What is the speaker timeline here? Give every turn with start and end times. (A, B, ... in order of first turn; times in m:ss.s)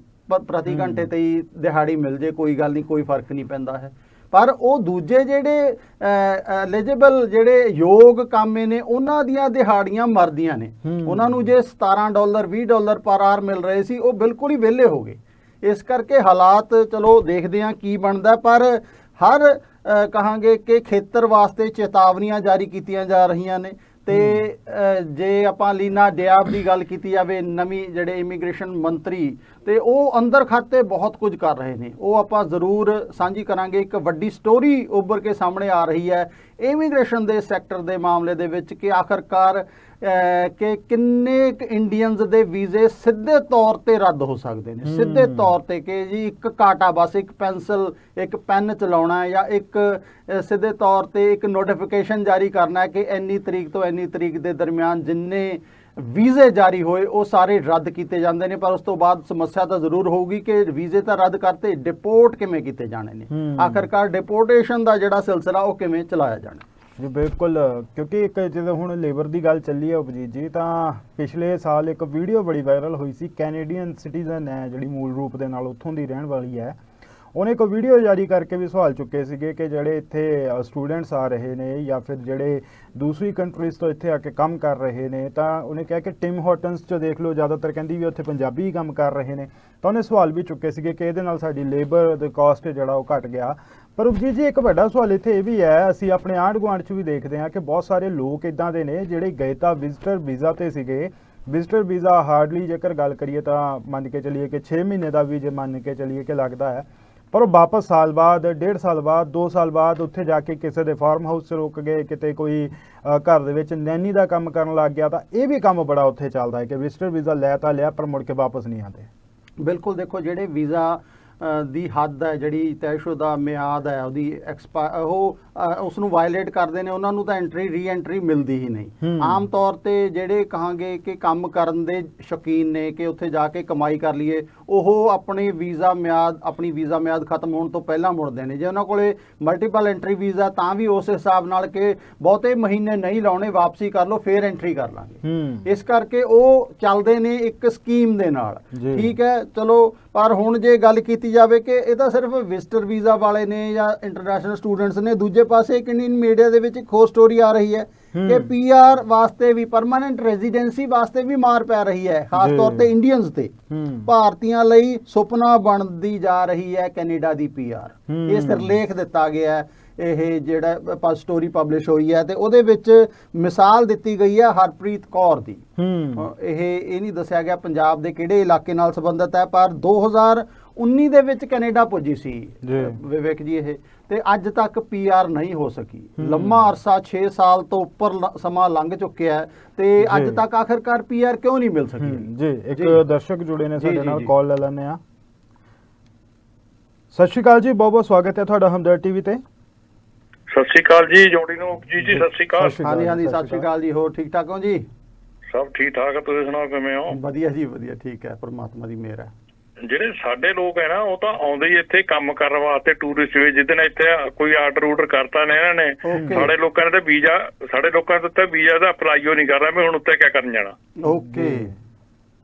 0:00.3-1:06.6 A
0:00.7-0:01.1 B
0:10.8-0:11.5 B
0:24.1-0:24.4 B
0:44.8-0:45.5 B
1:03.3-1:03.9 B
1:07.0-1:16.8 B
1:17.4-1:59.1 B
1:59.6-2:43.5 A
2:09.0-2:09.4 B
2:25.2-2:25.7 B
2:28.7-2:29.1 B
2:38.1-2:38.5 B
2:42.4-2:42.9 B
2:43.7-2:44.1 B
2:44.0-2:55.6 A
2:48.1-2:48.8 B
2:55.8-2:56.2 B
2:56.2-3:13.0 A
3:02.6-3:03.0 B
3:06.2-3:06.7 B
3:10.0-3:10.4 B
3:12.0-3:15.0 B
3:13.8-3:14.3 A
3:17.1-3:19.4 B
3:20.5-3:22.8 C
3:22.0-3:23.7 B
3:22.8-3:24.8 A
3:25.5-3:27.2 C
3:27.1-3:29.3 A
3:29.8-3:40.7 C
3:36.0-3:36.5 A
3:36.2-3:36.4 B
3:41.0-3:41.8 A
3:41.1-3:41.7 B